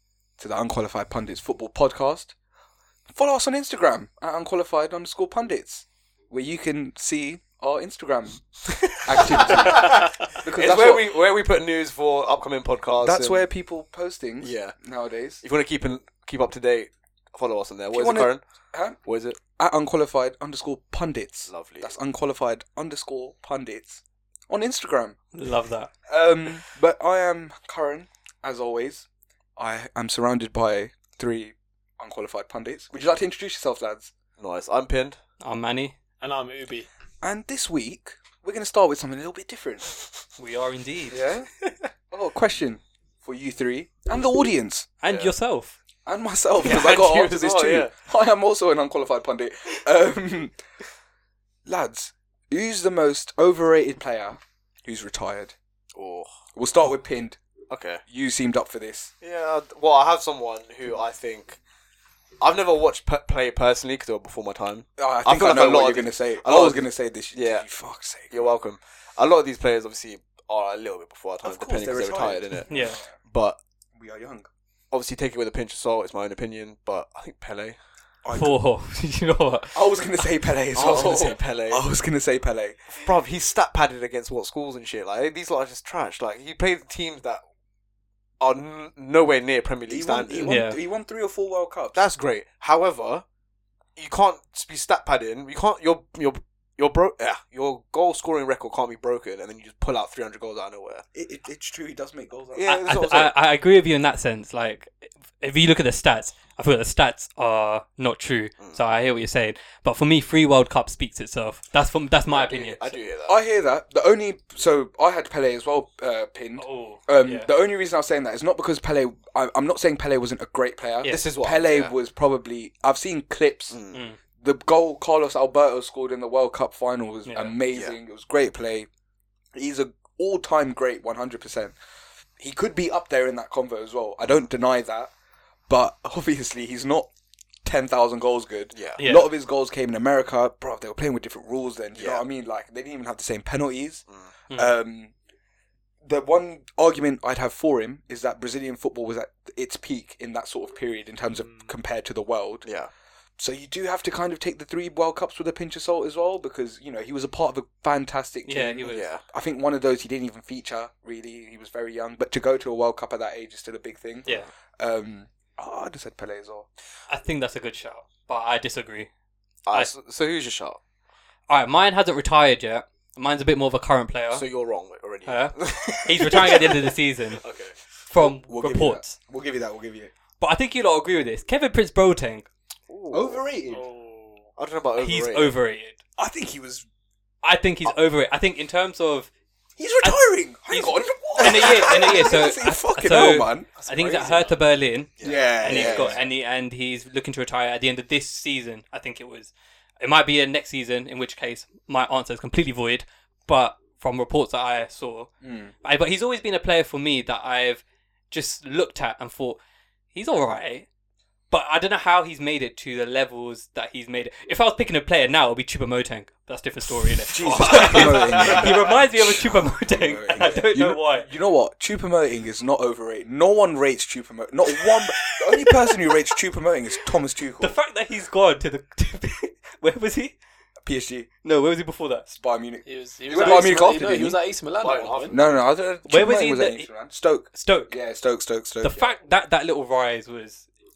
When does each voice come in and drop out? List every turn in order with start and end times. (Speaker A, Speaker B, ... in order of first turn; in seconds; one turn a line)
Speaker A: 0.4-2.3
Speaker A: 3.1-11.1
Speaker B: 8.7-13.4
Speaker A: 13.0-15.4
Speaker B: 14.4-14.8
Speaker B: 15.4-18.4
Speaker A: 17.9-25.2
Speaker B: 19.0-19.4
Speaker B: 21.5-21.9
Speaker C: 25.3-25.9
Speaker A: 26.1-34.1
Speaker B: 34.4-35.2
Speaker C: 35.4-36.0
Speaker D: 36.2-36.9
Speaker A: 37.2-39.9
Speaker C: 40.4-41.2
Speaker A: 41.1-41.5
Speaker A: 42.1-44.9
Speaker C: 45.0-45.8
Speaker B: 45.1-45.3
Speaker A: 46.0-50.6
Speaker B: 46.6-47.9
Speaker A: 51.6-55.5
Speaker B: 55.9-56.3
Speaker A: 56.5-57.4
Speaker B: 57.7-58.0
Speaker A: 58.1-59.1
Speaker B: 59.2-61.6
Speaker B: 62.4-67.7
Speaker A: 65.0-68.5
Speaker B: 68.3-73.6
Speaker A: 71.4-73.2
Speaker C: 72.7-73.0
Speaker A: 73.9-74.5
Speaker B: 74.9-77.8
Speaker A: 78.2-78.6
Speaker C: 78.3-79.8
Speaker A: 79.7-83.0
Speaker B: 80.7-81.8
Speaker B: 82.9-87.4
Speaker B: 88.4-90.5
Speaker A: 89.9-92.0
Speaker C: 90.5-90.8
Speaker B: 91.9-93.2
Speaker B: 94.0-101.0
Speaker A: 101.1-102.7
Speaker B: 102.5-103.3
Speaker C: 102.6-113.0
Speaker B: 112.3-113.3
Speaker A: 113.2-123.8
Speaker C: 116.6-117.5
Speaker B: 121.1-121.9
Speaker B: 123.7-124.0
Speaker C: 123.9-124.2
Speaker A: 124.4-128.9
Speaker C: 127.2-127.5
Speaker B: 127.7-128.0
Speaker A: 129.5-131.8
Speaker A: 132.4-135.1
Speaker A: 135.7-137.1
Speaker A: 137.6-145.1
Speaker B: 138.7-139.0
Speaker C: 139.0-139.3
Speaker B: 141.9-142.2
Speaker A: 146.0-152.7
Speaker D: 151.3-151.7
Speaker B: 152.6-152.9
Speaker A: 153.4-166.7
Speaker C: 158.4-159.1
Speaker B: 158.9-159.2
Speaker C: 167.1-169.1
Speaker B: 169.7-170.8
Speaker C: 171.5-174.4
Speaker B: 174.3-177.8
Speaker C: 175.2-177.4
Speaker C: 178.1-179.2
Speaker A: 178.2-180.1
Speaker C: 180.4-182.5
Speaker B: 182.9-183.4
Speaker A: 183.1-183.8
Speaker D: 183.7-184.5
Speaker B: 184.6-185.6
Speaker C: 185.0-186.0
Speaker A: 186.2-186.8
Speaker C: 187.4-189.3
Speaker A: 189.8-193.7
Speaker C: 190.0-205.3
Speaker D: 193.7-194.6
Speaker B: 195.2-196.2
Speaker A: 195.2-196.3
Speaker A: 205.4-205.7
Speaker C: 205.8-209.6
Speaker C: 210.1-210.9
Speaker C: 211.5-221.3
Speaker A: 217.3-227.8
Speaker B: 217.8-218.6
Speaker C: 227.6-230.3
Speaker A: 230.8-231.3
Speaker C: 231.4-232.3
Speaker A: 232.3-234.4
Speaker D: 232.8-235.3
Speaker B: 233.4-233.6
Speaker B: 234.8-235.5
Speaker A: 235.3-239.1
Speaker C: 236.1-236.9
Speaker C: 237.5-237.9
Speaker C: 238.8-240.7